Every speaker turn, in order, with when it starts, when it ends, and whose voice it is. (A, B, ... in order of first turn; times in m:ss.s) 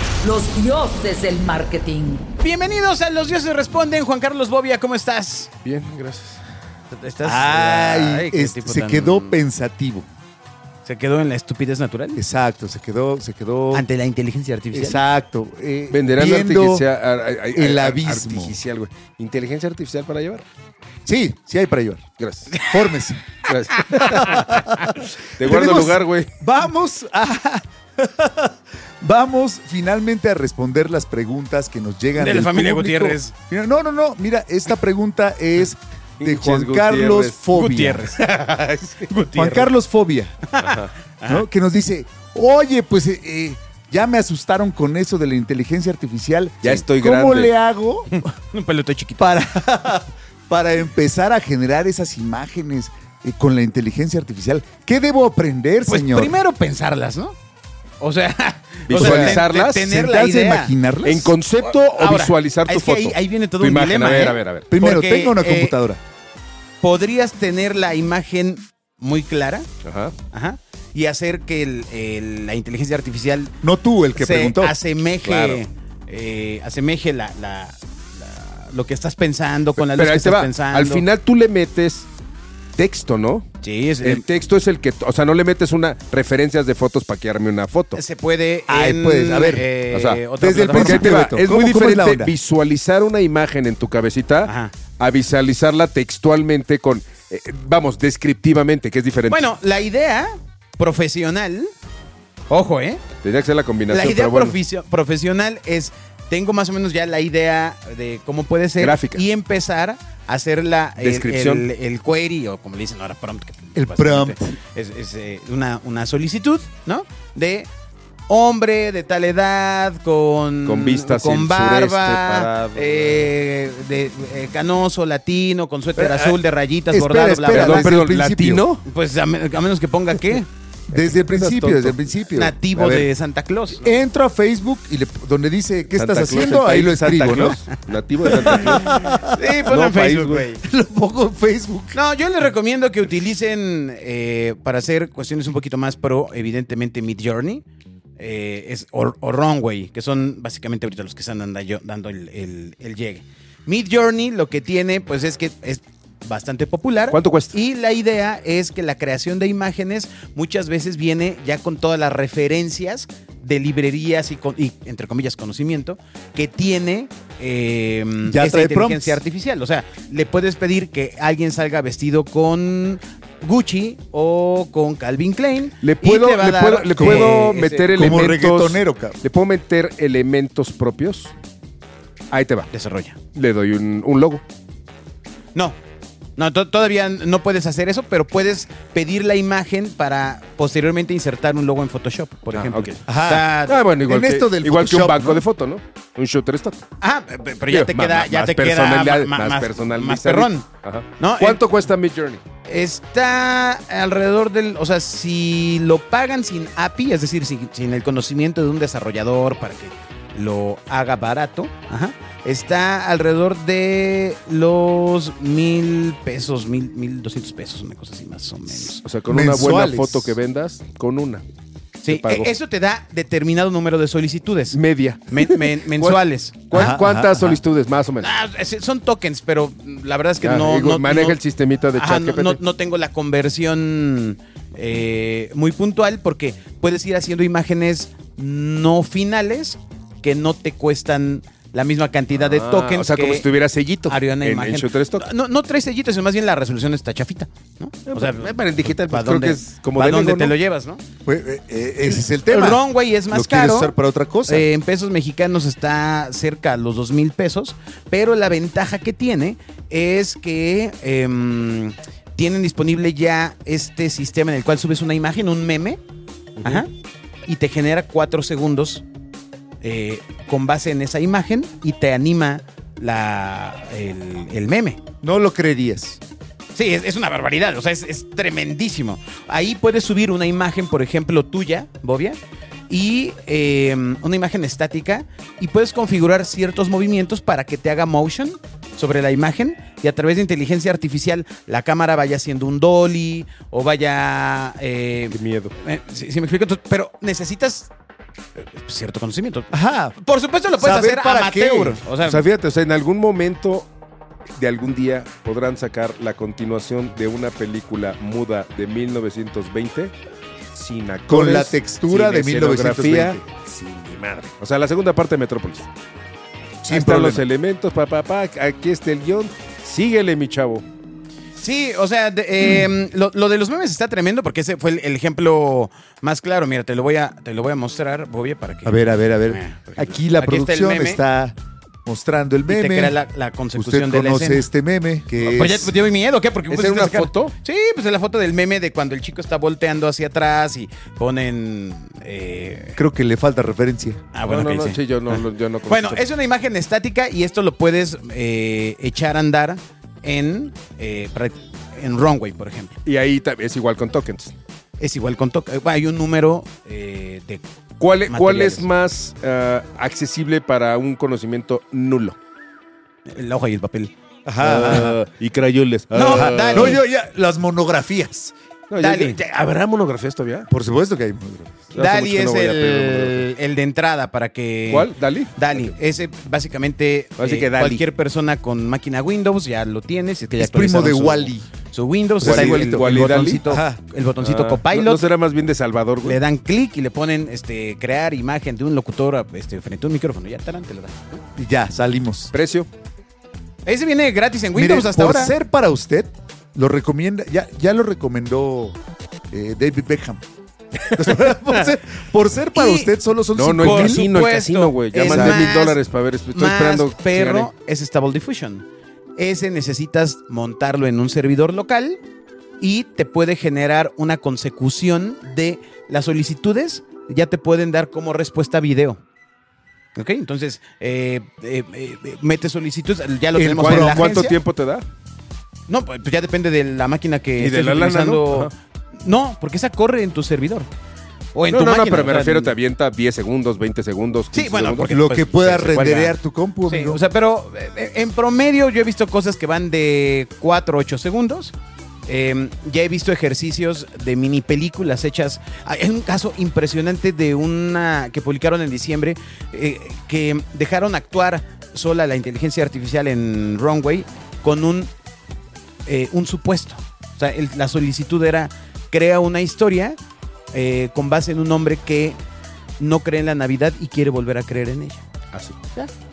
0:00.2-0:02.2 A
0:02.4-0:05.5 B
0:05.6-0:06.4 C
0:06.9-0:09.4 B
0:07.2-0:10.1 D
0:10.8-0:12.2 B
0:12.2-0:13.8 D
0:13.7-0:15.0 B
0:14.7-0:16.8 D
0:15.9-0:20.4 C
0:17.5-0:18.6 D
0:21.0-0:22.0 D
0:22.2-0:22.5 C
0:22.6-0:23.4 D
0:23.5-0:26.3 C
0:24.0-0:24.9 D
0:25.4-0:38.2 D
0:32.1-0:33.3 B
0:36.2-0:37.4 C
0:37.5-0:39.7 B
0:39.3-0:40.4 D
0:40.5-0:41.4 B
0:40.6-0:40.9 C
0:41.3-0:48.1 D
0:46.6-0:47.5 C
0:48.1-0:49.3 B
0:49.2-0:56.4 D
0:55.9-0:57.4 B
0:58.0-1:00.7 B
0:58.9-1:00.0 C
0:58.9-1:01.3 D
1:01.0-1:04.7 C
1:01.6-1:05.8 B
1:04.7-1:06.0 D
1:06.8-1:09.7 B
1:09.8-1:10.1 C
1:10.3-1:13.5 B
1:13.6-1:14.8 D
1:14.1-1:21.0 B
1:15.2-1:15.6 C
1:19.8-1:22.1 C
1:22.8-1:23.4 C
1:23.6-1:24.2 B
1:24.0-1:28.0 C
1:27.9-1:31.1 B
1:28.7-1:29.7 D
1:29.9-1:39.5 C
1:30.4-1:32.3 D
1:34.4-1:34.7 B
1:39.3-1:41.7 B
1:42.5-1:43.0 B
1:43.2-1:44.6 C
1:43.9-1:57.7 B
1:48.8-1:49.2 C
1:51.0-1:51.6 C
1:53.7-1:54.6 D
1:58.3-2:07.9 B
2:00.6-2:03.3 C
2:06.0-2:06.4 D
2:06.9-2:08.6 D
2:07.5-2:08.8 C
2:08.8-2:10.5 B
2:10.9-2:13.1 D
2:10.9-2:12.2 C
2:12.3-2:13.9 B
2:13.8-2:17.6 D
2:15.9-2:20.4 C
2:18.3-2:20.6 B
2:18.4-2:19.4 D
2:19.9-2:22.0 D
2:21.9-2:27.6 B
2:28.2-2:58.0 B
2:37.1-2:37.5 C
2:48.2-2:49.2 D
2:55.8-3:01.3 C
2:57.0-2:57.4 D
2:57.9-2:59.2 D
3:02.3-3:02.7 C
3:02.7-3:03.2 B
3:03.3-3:04.4 C
3:06.4-3:13.8 B
3:12.5-3:13.0 C
3:13.1-3:15.4 D
3:13.6-3:16.8 C
3:17.0-3:20.7 B
3:17.7-3:22.4 C
3:21.2-3:21.6 B
3:22.6-3:39.0 B
3:38.8-3:41.4 C
3:39.3-3:40.4 D
3:42.0-3:44.8 B
3:42.1-3:42.5 C
3:44.7-3:48.3 C
3:45.3-3:47.6 B
3:46.7-3:47.5 D
3:48.2-3:51.4 B
3:50.4-3:52.6 C
3:51.9-4:03.5 B
4:02.4-4:05.3 C
4:04.0-4:11.0 B
4:08.1-4:10.5 C
4:11.2-4:14.7 D
4:12.5-4:26.0 B
4:26.6-4:26.9 B
4:27.4-4:29.0 B
4:29.8-4:35.0 B
4:35.2-4:36.2 D
4:36.7-4:57.9 B
4:55.3-4:55.7 C
4:58.6-5:02.4 B
4:59.7-5:00.2 D
5:00.8-5:02.0 D
5:02.2-5:03.9 C
5:04.6-5:10.1 C
5:10.7-5:15.9 C
5:11.3-5:13.4 D
5:16.8-5:17.4 D
5:16.9-5:20.8 C
5:21.6-5:31.2 B
5:28.8-5:33.2 D
5:32.7-5:34.7 B
5:33.7-5:35.9 D
5:35.4-5:43.0 B
5:36.7-5:37.5 C
5:43.0-5:44.2 D
5:44.3-5:53.0 B
5:44.4-5:46.2 C
5:53.0-5:54.5 C
5:55.0-5:57.6 B
5:58.0-6:02.4 C
5:58.3-5:58.8 B
6:03.2-6:04.1 B
6:04.4-6:05.2 D
6:04.6-6:07.0 C
6:06.1-6:07.0 B
6:06.1-6:08.5 D
6:08.9-6:10.7 C
6:09.0-6:09.4 B
6:10.7-6:11.9 D
6:11.9-6:13.5 C
6:11.9-6:25.2 B
6:14.9-6:15.9 C
6:17.4-6:18.0 C
6:20.6-6:21.7 D
6:22.4-6:24.0 D
6:22.4-6:23.6 C
6:24.4-6:26.4 C
6:26.2-6:31.4 B
6:31.6-6:32.5 D
6:32.5-6:32.9 C
6:33.8-6:35.5 B
6:34.7-6:39.0 D
6:39.5-6:40.4 D
6:41.1-6:44.3 D
6:42.7-6:43.1 B
6:43.5-6:47.7 C
6:43.8-6:46.0 B
6:45.2-6:45.6 D
6:46.5-6:52.2 B
6:52.8-6:59.2 B
7:00.1-7:04.6 B
7:03.5-7:04.6 D
7:03.7-7:05.0 C
7:05.9-7:10.9 B
7:07.6-7:08.7 C
7:11.5-7:12.7 B
7:11.7-7:15.2 C
7:14.5-7:21.7 B
7:15.0-7:17.2 D
7:22.2-7:35.1 B
7:36.0-7:40.2 B
7:40.7-7:42.4 B
7:43.0-7:45.2 B
7:45.5-7:45.8 C